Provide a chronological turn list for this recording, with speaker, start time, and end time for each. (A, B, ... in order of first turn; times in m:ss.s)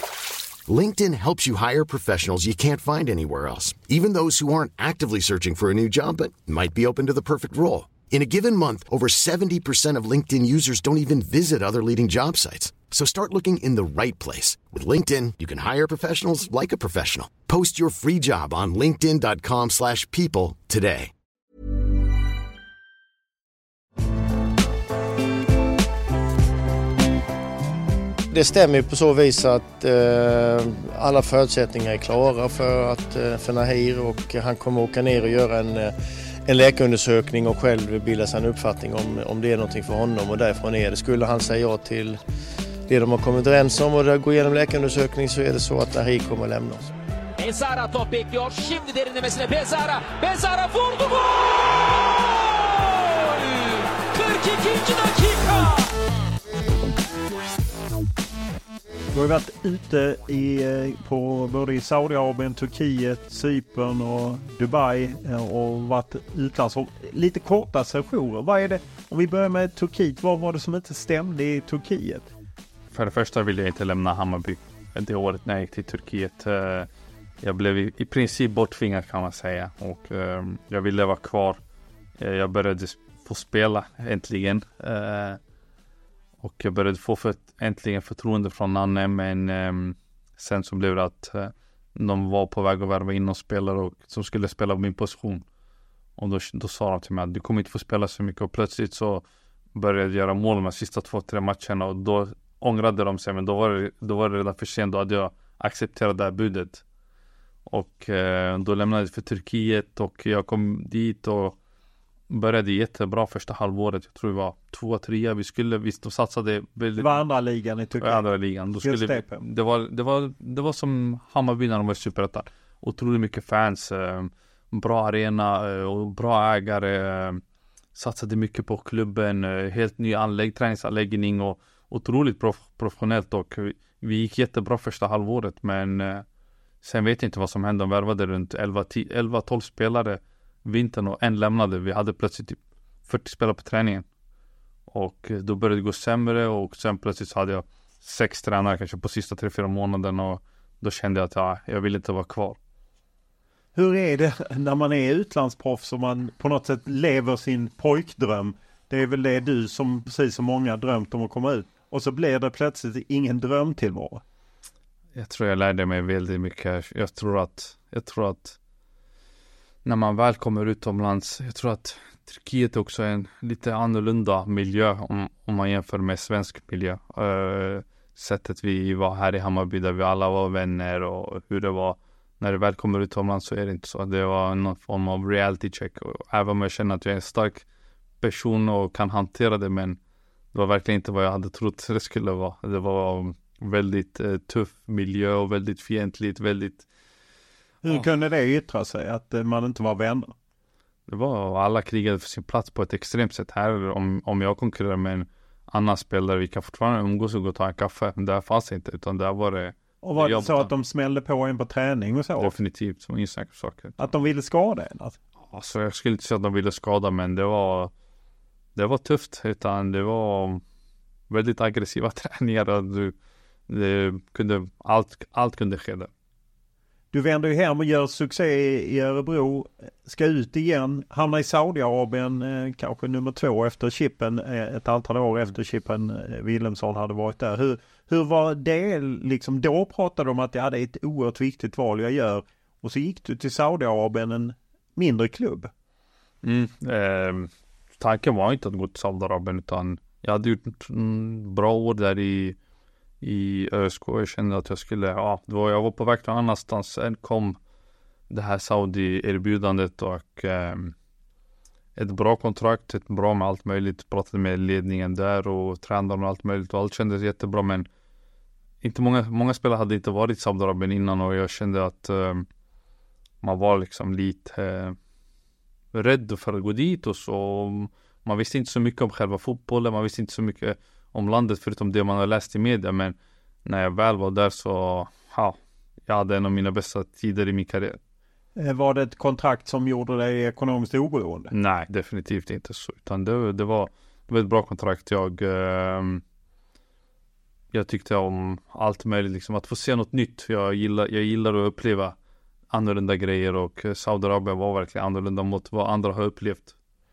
0:00.7-0:21.1 A
0:28.3-0:42.2 B
0:42.9-0:46.9 B
0:47.4-0:55.9 C
0:59.1-1:12.3 D
1:12.9-1:16.9 E
1:17.4-1:21.6 E
1:22.2-1:25.4 E
1:26.4-1:35.4 E
1:36.2-1:39.2 E
1:39.8-1:46.8 E
1:47.7-1:51.6 E
1:52.3-1:57.2 E
1:57.0-1:58.2 D
1:58.0-2:07.4 E
1:58.8-1:59.4 D
2:08.0-2:16.2 E
2:16.8-2:24.1 E
2:24.9-2:32.6 E
2:33.8-2:44.2 D
2:45.2-2:48.6 E
2:49.8-3:07.6 E
3:08.2-3:10.0 E
3:10.5-3:16.9 E
3:17.8-3:20.3 D
3:21.1-3:30.7 E
3:30.0-3:32.6 D
3:32.4-3:34.0 E
3:34.0-3:35.2 D
3:35.5-3:37.9 E
3:38.8-3:40.6 E
3:41.3-3:43.2 E
3:43.7-3:46.1 E
3:47.1-4:05.7 D
4:06.4-4:12.6 E
4:13.2-4:17.6 E
4:18.3-4:20.9 E
4:22.0-4:27.9 E
4:28.8-4:32.5 E
4:33.4-4:35.0 E
4:35.9-4:48.0 E
4:48.6-4:51.5 D
4:51.5-4:56.2 E
4:57.7-5:02.2 E
5:02.7-5:06.8 E